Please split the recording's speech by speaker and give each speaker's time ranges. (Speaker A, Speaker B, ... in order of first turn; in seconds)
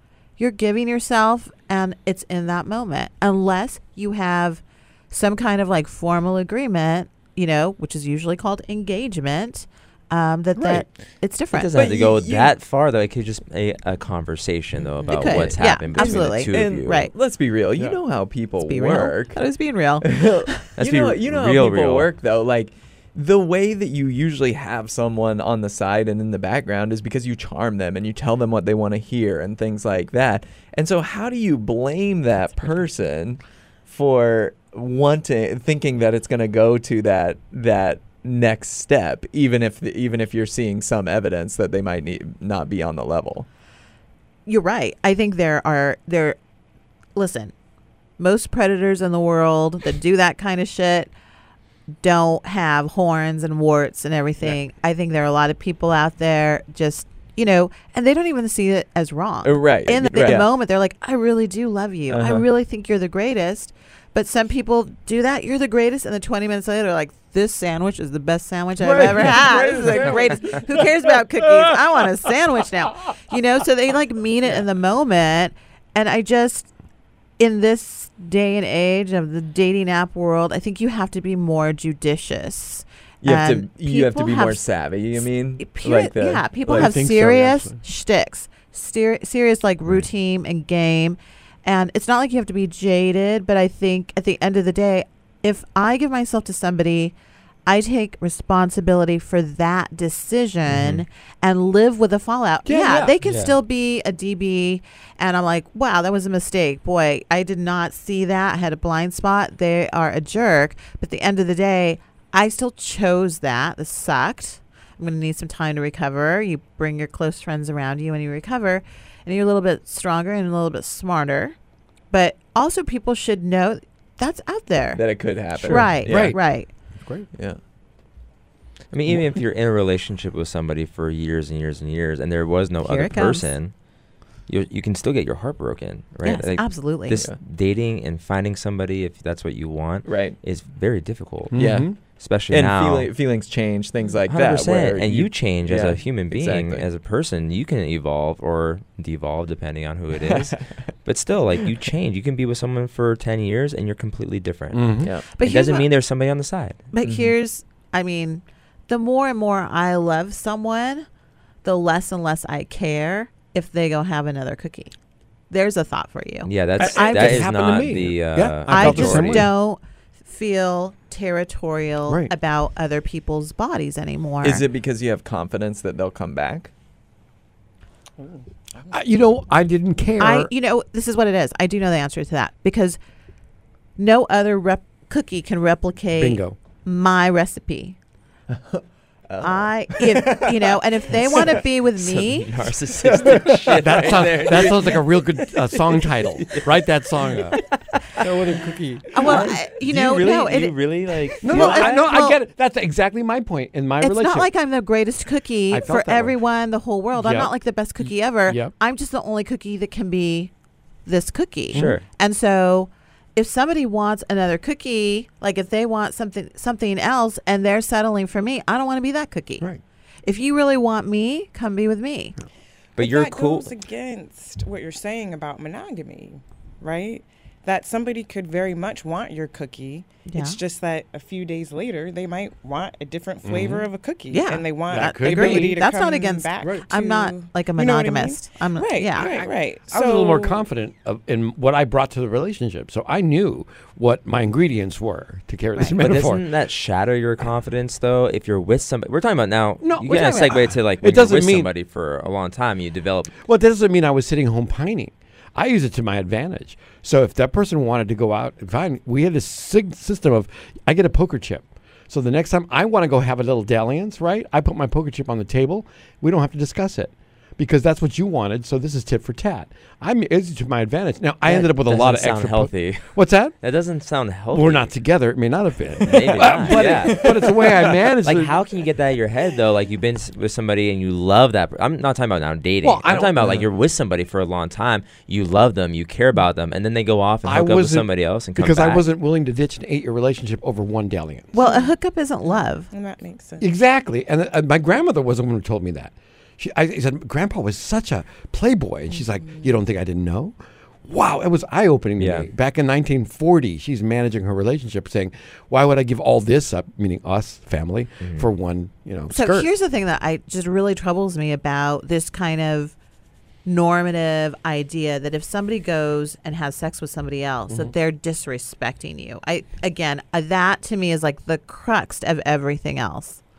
Speaker A: 0.4-11.7, 15.1-17.1, 18.7-20.6, 44.5-46.4, 47.2-47.5, 48.2-51.1, 52.0-76.7, 77.4-84.7, 85.2-121.6, 122.1-126.7, 132.8-133.6, 136.2-137.2, 155.3-155.9, 156.9-161.1, 161.6-164.9, 165.5-167.5, 168.7-174.6, 180.2-183.0, 184.0-188.0, 189.4-192.5, 199.1-200.8, 201.3-202.4, 204.0-210.5, 211.1-219.7, 220.2-222.4, 230.3-230.6, 234.3-239.4, 245.8-246.0, 291.5-292.9, 309.3-312.9, 313.6-323.4
Speaker B: 11.5-17.1, 20.8-22.1, 100.7-101.0, 103.2-103.5, 128.9-133.7, 134.5-143.1, 144.3-157.3, 166.4-169.5, 191.9-202.1, 211.7-212.0, 223.0-223.8, 246.0-253.4, 271.4-274.9, 276.0-277.4, 278.2-289.1, 302.2-302.5, 308.2-308.5
Speaker C: 11.7-12.6, 16.0-19.4, 20.0-43.5, 59.4-60.5, 62.1-62.4, 68.8-70.6, 83.2-87.0, 125.0-126.3, 127.3-127.6, 140.1-140.4, 141.6-141.9, 142.5-146.9, 150.2-150.6, 174.4-176.7, 188.5-191.6, 193.1-194.8, 276.1-278.0
Speaker D: 14.8-15.3, 223.0-240.7, 291.6-293.7, 299.1-299.8
Speaker E: 86.7-87.8, 102.7-103.1, 125.7-126.4, 127.0-127.3, 141.5-142.0, 154.7-155.1, 166.8-169.5, 178.9-180.5, 186.2-186.6, 193.5-197.6, 198.2-199.5, 201.4-204.5, 205.7-206.4, 207.2-207.5, 208.5-208.7, 211.7-212.0, 233.4-233.9, 234.9-235.8, 236.6-236.9, 239.2-246.5, 249.8-251.7, 253.4-273.6, 274.5-278.6, 282.8-283.7, 287.4-291.6, 293.6-300.6, 301.1-309.7